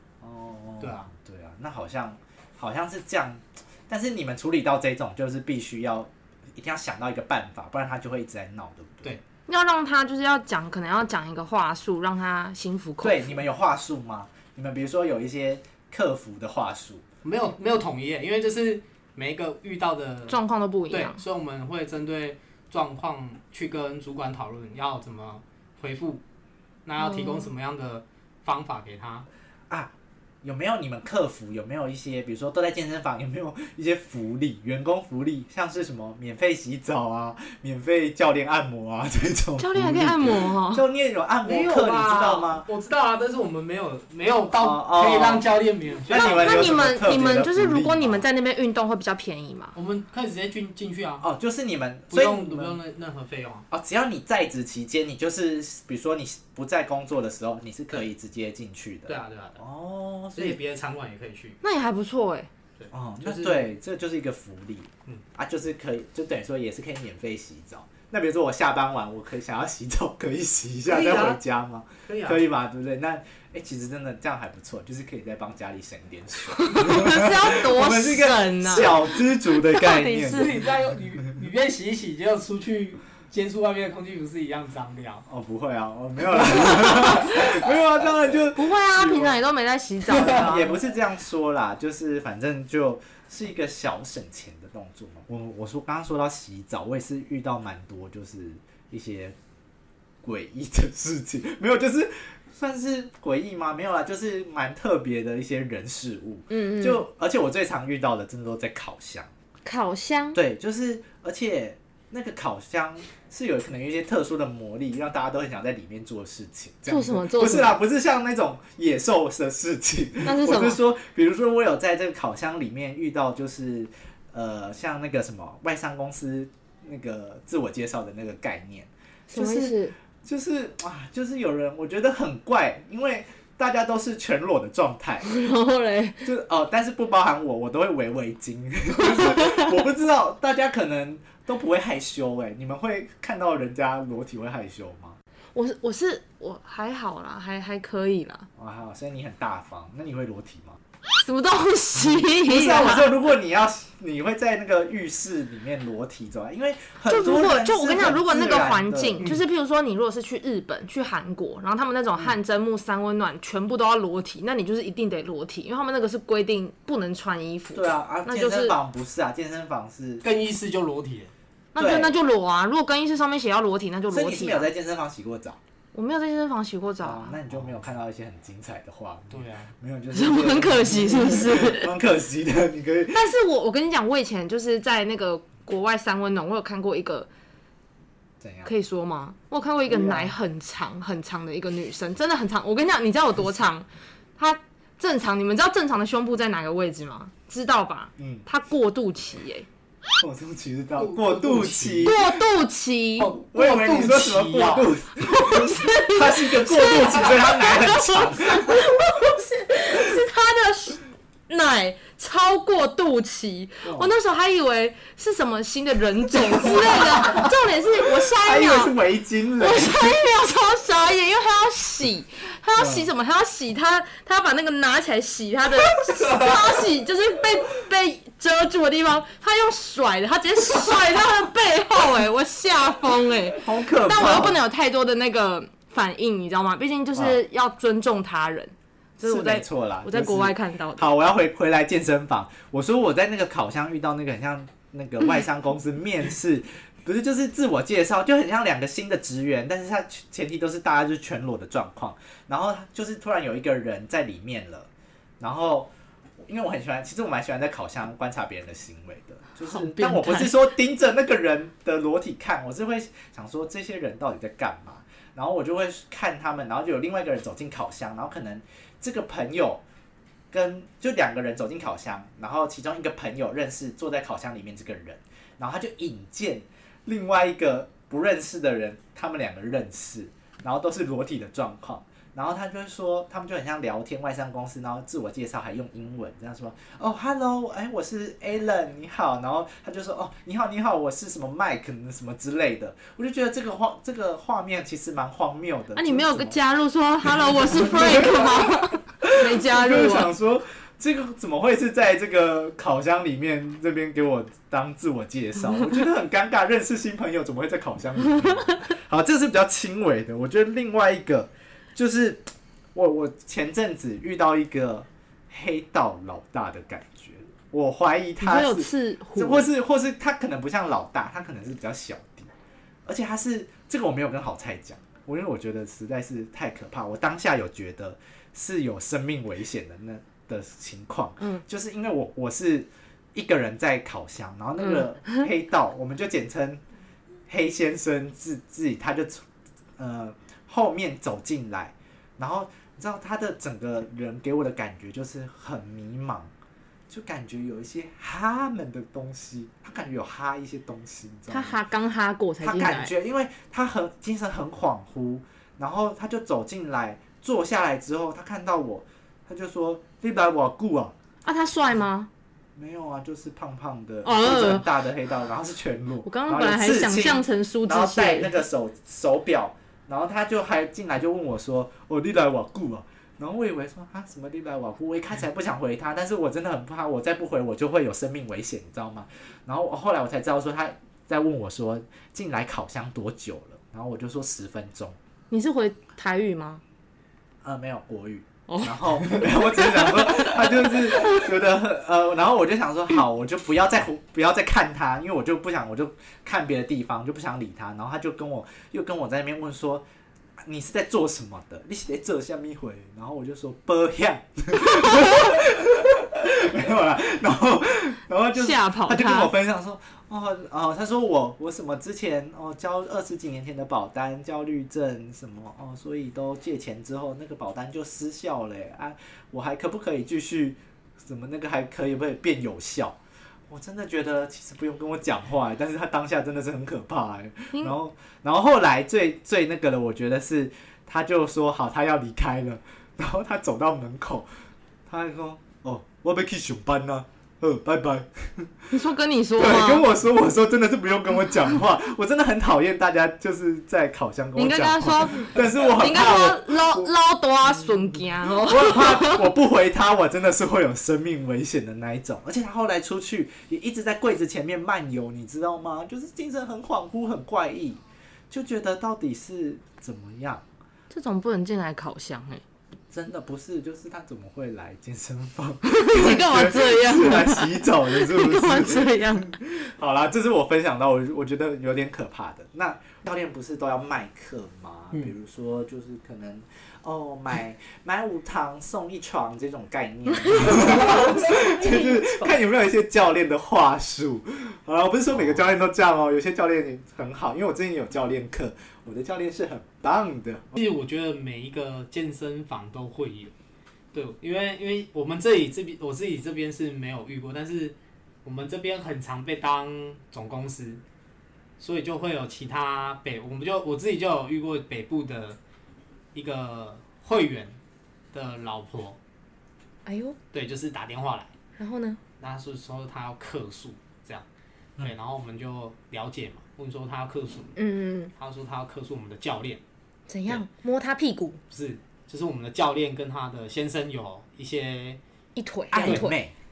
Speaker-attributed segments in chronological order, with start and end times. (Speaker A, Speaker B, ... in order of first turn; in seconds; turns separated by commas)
Speaker A: 0.2-9.2, Speaker B: 0.8-1.1, Speaker C: 9.5-13.4, Speaker A: 13.0-17.0, Speaker B: 17.2-20.4, Speaker C: 20.3-21.2, Speaker B: 20.9-26.2, Speaker B: 26.9-29.3, Speaker C: 27.0-27.5, Speaker A: 29.7-42.7, Speaker C: 39.6-40.8, Speaker B: 41.4-46.6, Speaker A: 44.5-45.5, Speaker A: 46.1-48.2, Speaker C: 46.1-49.7, Speaker B: 49.7-51.2, Speaker A: 51.2-52.8, Speaker B: 52.1-53.6, Speaker A: 53.7-60.6, Speaker B: 59.1-59.6, Speaker B: 60.3-61.6, Speaker C: 61.6-62.5, Speaker B: 62.8-63.7, Speaker A: 62.9-80.6, Speaker B: 70.8-71.4, Speaker B: 72.0-72.4, Speaker C: 76.5-80.5, Speaker B: 80.1-85.2, Speaker A: 85.2-89.4, Speaker C: 88.5-90.8, Speaker A: 90.1-99.3, Speaker A: 100.2-109.3, Speaker C: 106.5-107.0, Speaker C: 109.6-110.4, Speaker A: 110.3-135.2, Speaker C: 116.9-117.8, Speaker C: 120.2-120.8, Speaker C: 129.3-129.9, Speaker C: 135.2-136.3, Speaker A: 136.2-145.2, Speaker C: 145.5-148.5, Speaker A: 148.6-150.8, Speaker C: 151.2-153.1, Speaker A: 152.0-159.2, Speaker C: 157.1-168.7, Speaker A: 167.7-170.2, Speaker B: 170.2-171.3, Speaker C: 171.7-174.7, Speaker A: 171.8-172.2, Speaker A: 174.1-175.6, Speaker C: 175.9-177.4, Speaker A: 177.0-183.3, Speaker B: 179.3-179.7, Speaker C: 180.1-181.9, Speaker C: 183.1-187.3, Speaker A: 188.4-188.7, Speaker C: 188.6-199.7, Speaker A: 189.9-190.3, Speaker A: 198.2-198.4, Speaker A: 200.2-202.2, Speaker B: 201.0-202.2, Speaker C: 202.0-203.3, Speaker B: 203.2-205.0, Speaker A: 203.5-208.9, Speaker C: 205.2-218.9, Speaker A: 213.8-214.1, Speaker A: 216.6-217.5, Speaker A: 218.2-220.1, Speaker C: 219.6-241.1, Speaker A: 222.8-223.1, Speaker A: 233.6-234.6, Speaker A: 237.1-237.4, Speaker A: 239.2-254.9, Speaker A: 255.4-269.8, Speaker C: 259.6-260.6, Speaker A: 270.5-296.6, Speaker C: 295.9-300.3, Speaker A: 297.2-322.5, Speaker C: 318.4-319.7, Speaker A: 323.1-336.8, Speaker C: 334.8-335.4, Speaker A: 337.5-339.4, Speaker A: 340.0-346.5, Speaker A: 347.1-351.8, Speaker C: 351.5-353.1, Speaker A: 352.6-361.1, Speaker C: 361.4-362.3, Speaker A: 362.8-385.2, Speaker C: 364.2-364.9, Speaker C: 366.2-368.5, Speaker C: 385.5-386.8, Speaker A: 387.6-400.0, Speaker C: 388.7-391.4, Speaker A: 400.6-423.2, Speaker C: 408.5-409.5, Speaker A: 423.7-434.5, Speaker A: 435.1-438.9, Speaker C: 438.9-440.1, Speaker A: 439.6-447.1, Speaker C: 444.6-449.5, Speaker A: 448.4-460.6, Speaker C: 461.1-462.6, Speaker A: 463.1-490.7, Speaker C: 465.8-469.5, Speaker C: 480.3-482.5, Speaker B: 490.7-493.5, Speaker B: 494.1-501.0, Speaker B: 501.8-505.6, Speaker B: 506.3-507.8, Speaker B: 508.3-509.2, Speaker C: 510.1-510.4, Speaker B: 510.5-511.5, Speaker C: 511.8-512.2, Speaker B: 512.4-514.4, Speaker B: 515.0-517.7, Speaker C: 517.8-518.3, Speaker B: 518.4-519.8, Speaker C: 520.3-521.6, Speaker B: 521.7-525.2, Speaker C: 525.5-526.3, Speaker A: 525.9-526.5